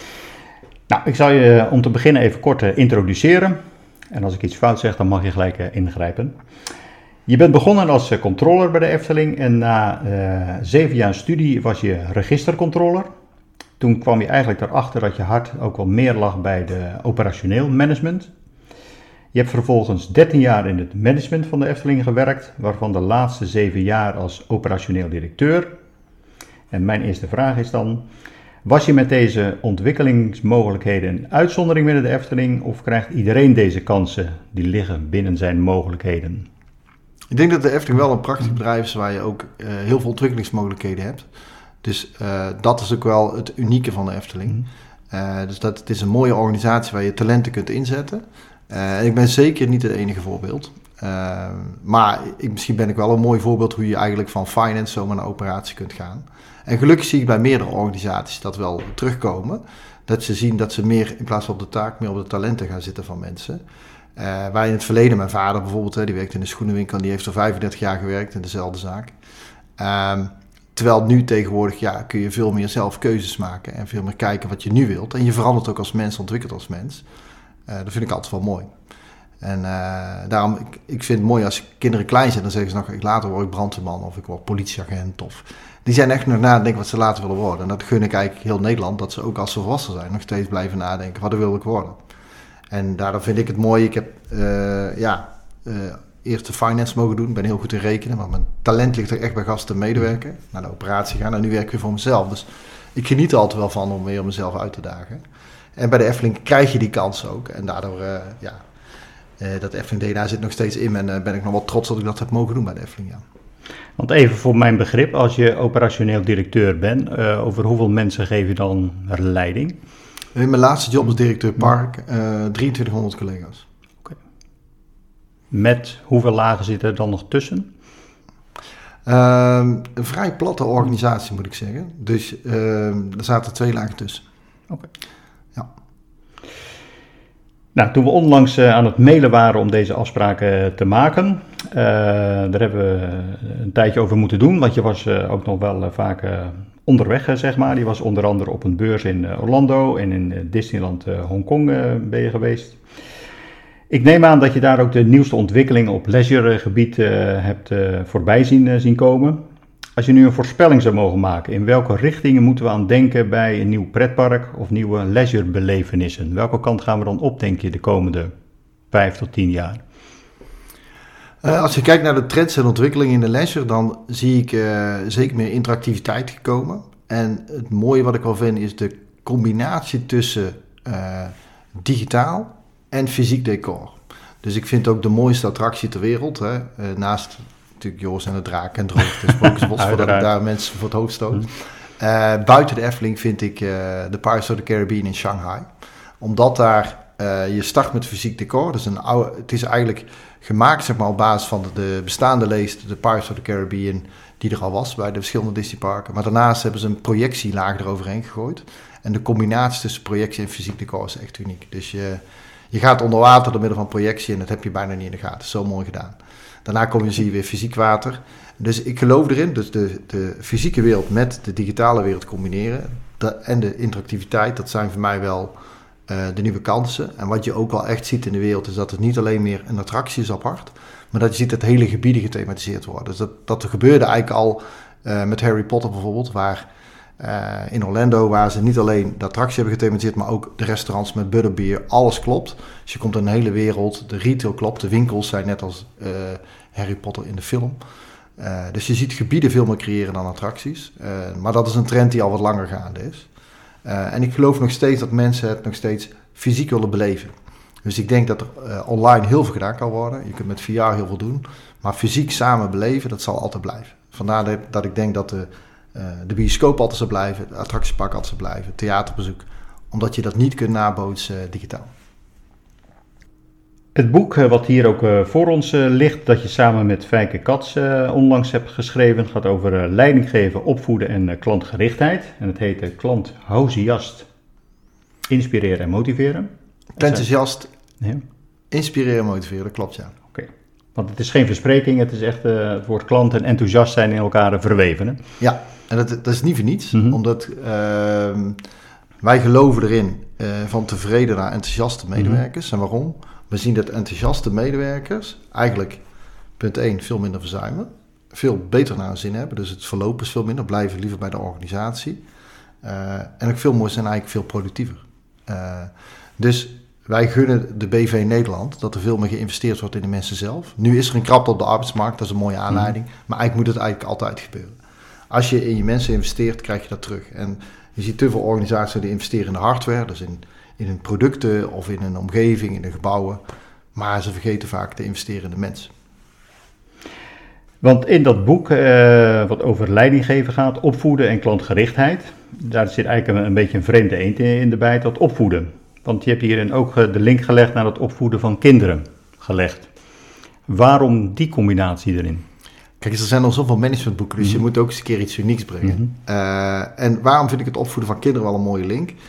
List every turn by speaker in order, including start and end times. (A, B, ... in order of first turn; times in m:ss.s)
0:00.9-0:06.3 A
0:07.3-0:13.1 A
0:13.8-0:18.3 A
0:19.3-0:25.7 A
0:26.7-0:28.0 A
0:28.6-0:36.5 A
0:37.3-0:41.3 B
0:41.8-1:03.6 B
1:04.2-1:09.1 B
1:09.8-1:17.0 B
1:17.7-1:18.7 B
1:19.4-1:32.0 B
1:32.7-1:45.2 B
1:45.8-1:48.6 B
1:49.4-1:53.2 B
1:54.0-1:59.8 A
2:00.4-2:03.6 B
2:05.5-2:07.7 A
2:09.1-2:14.2 B
2:17.7-2:32.8 A
2:33.9-2:39.4 A
2:40.0-2:48.3 A
2:48.9-2:49.8 A
2:51.4-3:15.7 B
3:09.8-3:10.3 A
3:16.2-3:45.6 B
3:46.1-3:56.7 B
3:57.2-4:07.8 B
4:08.4-4:13.3 B
4:13.8-4:17.3 B
4:17.8-4:31.9 B
4:34.0-4:44.3 A
4:45.3-4:47.2 A
4:47.0-4:47.7 B
4:48.7-4:50.2 B
4:50.3-4:55.2 A
4:55.4-4:58.6 B
4:59.2-5:06.0 B
5:06.6-5:12.2 B
5:12.8-5:24.8 B
5:25.3-5:33.4 B
5:34.0-5:35.9 B
5:37.8-5:49.9 A
5:50.7-5:52.4 A
5:53.0-5:59.2 B